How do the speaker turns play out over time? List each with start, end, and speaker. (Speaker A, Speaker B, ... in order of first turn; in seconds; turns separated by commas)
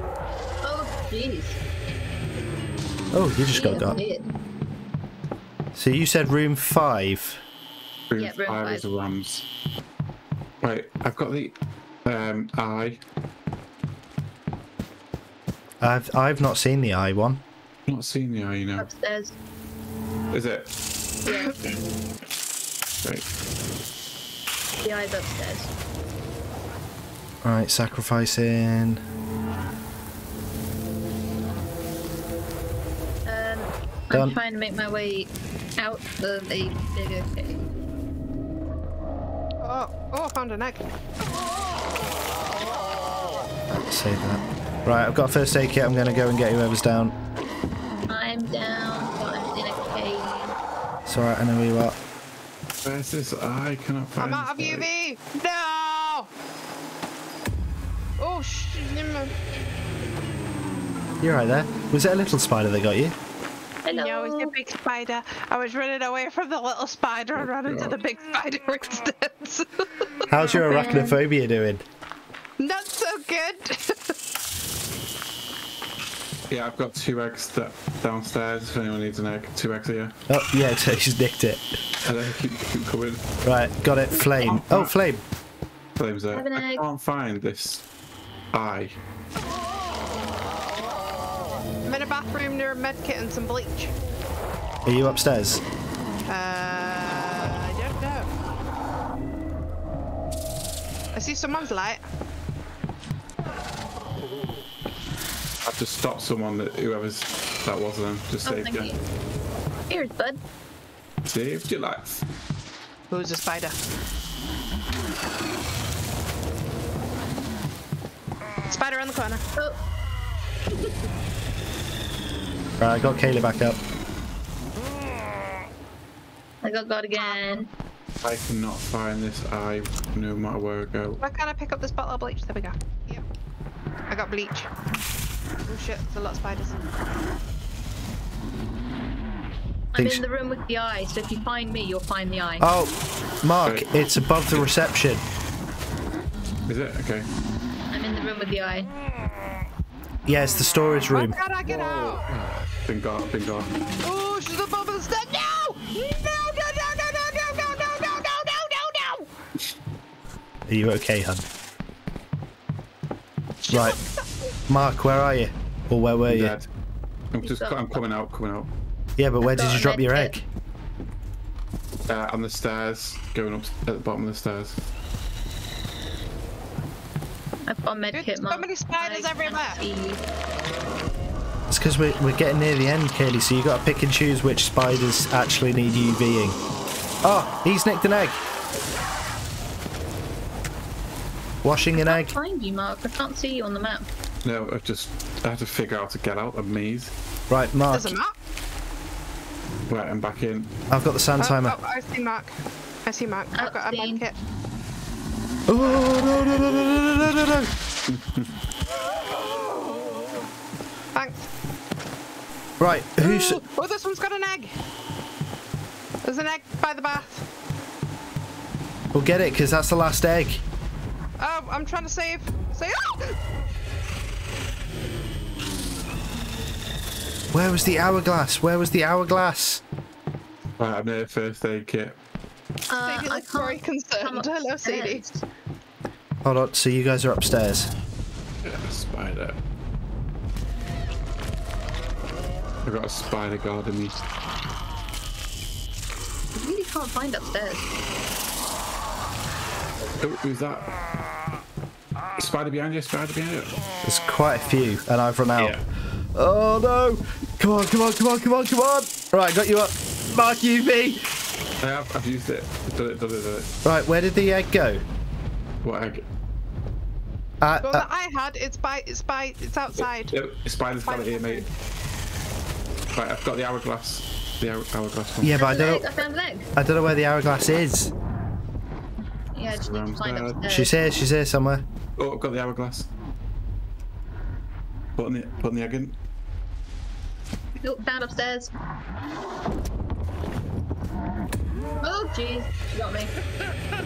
Speaker A: 0.6-1.6, Speaker B: 3.1-4.0, Speaker A: 3.5-4.3, Speaker B: 5.8-7.4, Speaker C: 8.1-9.4, Speaker A: 8.2-8.9, Speaker C: 10.6-13.0, Speaker B: 15.8-17.4, Speaker C: 17.9-18.9, Speaker A: 18.8-19.4, Speaker C: 20.3-20.7, Speaker A: 21.3-21.6, Speaker A: 24.8-25.7, Speaker B: 27.4-29.0, Speaker A: 33.2-37.7, Speaker D: 39.6-40.9, Speaker B: 43.7-47.1, Speaker A: 48.1-50.6, Speaker B: 51.1-52.0, Speaker C: 52.8-54.9, Speaker D: 54.2-56.3, Speaker D: 58.2-59.3, Speaker B: 61.2-63.1, Speaker A: 63.9-64.5, Speaker D: 63.9-70.1, Speaker C: 67.4-68.0, Speaker B: 70.3-71.8, Speaker A: 70.5-71.2, Speaker D: 72.6-74.1, Speaker C: 76.5-80.2, Speaker B: 80.3-81.8, Speaker C: 82.0-83.2, Speaker B: 83.5-85.2, Speaker C: 84.2-85.0, Speaker C: 86.0-87.8, Speaker A: 86.3-86.8, Speaker C: 88.5-89.0, Speaker D: 91.9-93.9, Speaker B: 94.9-95.6, Speaker D: 96.3-98.3, Speaker D: 101.1-102.0, Speaker C: 105.6-108.9, Speaker A: 108.5-109.0, Speaker A: 109.9-110.4, Speaker C: 111.3-112.2, Speaker D: 113.1-113.8, Speaker D: 118.7-119.4, Speaker B: 122.8-123.8, Speaker A: 126.6-127.7, Speaker D: 127.1-127.4, Speaker C: 128.2-131.2, Speaker D: 131.2-133.2, Speaker D: 134.1-134.7, Speaker D: 135.7-136.8, Speaker A: 139.9-142.7, Speaker B: 140.0-140.2, Speaker B: 142.6-145.2, Speaker C: 143.6-143.9, Speaker C: 146.7-147.3, Speaker A: 147.9-148.9, Speaker B: 150.3-151.4, Speaker D: 151.1-152.3, Speaker C: 151.7-153.7, Speaker D: 154.0-159.3, Speaker B: 160.7-161.5, Speaker D: 163.6-164.5, Speaker B: 163.7-164.0, Speaker B: 164.7-166.6, Speaker C: 166.3-166.7, Speaker C: 167.3-168.7, Speaker A: 167.4-168.0, Speaker B: 169.2-170.4, Speaker A: 169.4-170.4, Speaker C: 172.1-174.8, Speaker A: 177.7-180.2, Speaker D: 178.1-179.8, Speaker B: 181.7-186.6, Speaker B: 187.2-188.4, Speaker B: 191.6-192.3, Speaker A: 191.9-194.1, Speaker C: 194.4-197.1, Speaker B: 197.5-198.1, Speaker D: 197.9-198.4, Speaker C: 199.9-200.7, Speaker B: 200.9-201.8, Speaker D: 201.4-204.4, Speaker A: 203.6-204.2, Speaker B: 205.7-207.7, Speaker C: 208.1-208.5, Speaker D: 209.6-210.4, Speaker D: 211.1-211.5, Speaker B: 212.8-213.6, Speaker D: 213.2-214.8, Speaker D: 216.2-217.4, Speaker B: 219.1-220.6, Speaker D: 221.4-223.3, Speaker B: 227.5-229.8, Speaker C: 230.8-232.2, Speaker A: 232.9-235.4, Speaker D: 233.0-235.2, Speaker B: 236.4-237.9, Speaker C: 238.6-239.6, Speaker C: 242.8-244.2, Speaker A: 246.6-247.9, Speaker C: 250.2-250.9, Speaker C: 252.4-253.7, Speaker B: 254.0-255.8, Speaker C: 255.6-255.8, Speaker B: 256.4-261.3, Speaker C: 261.8-263.7, Speaker B: 263.9-265.0, Speaker C: 265.8-266.3, Speaker B: 267.6-268.1, Speaker D: 267.8-270.4, Speaker C: 269.9-271.7, Speaker D: 271.1-271.7, Speaker C: 273.1-275.6, Speaker B: 275.4-276.1, Speaker A: 275.5-276.7, Speaker B: 276.8-278.1, Speaker A: 279.5-281.0, Speaker C: 279.7-280.6, Speaker B: 280.7-281.8, Speaker C: 282.2-283.1, Speaker C: 285.2-286.1, Speaker A: 287.8-288.7, Speaker A: 292.0-293.3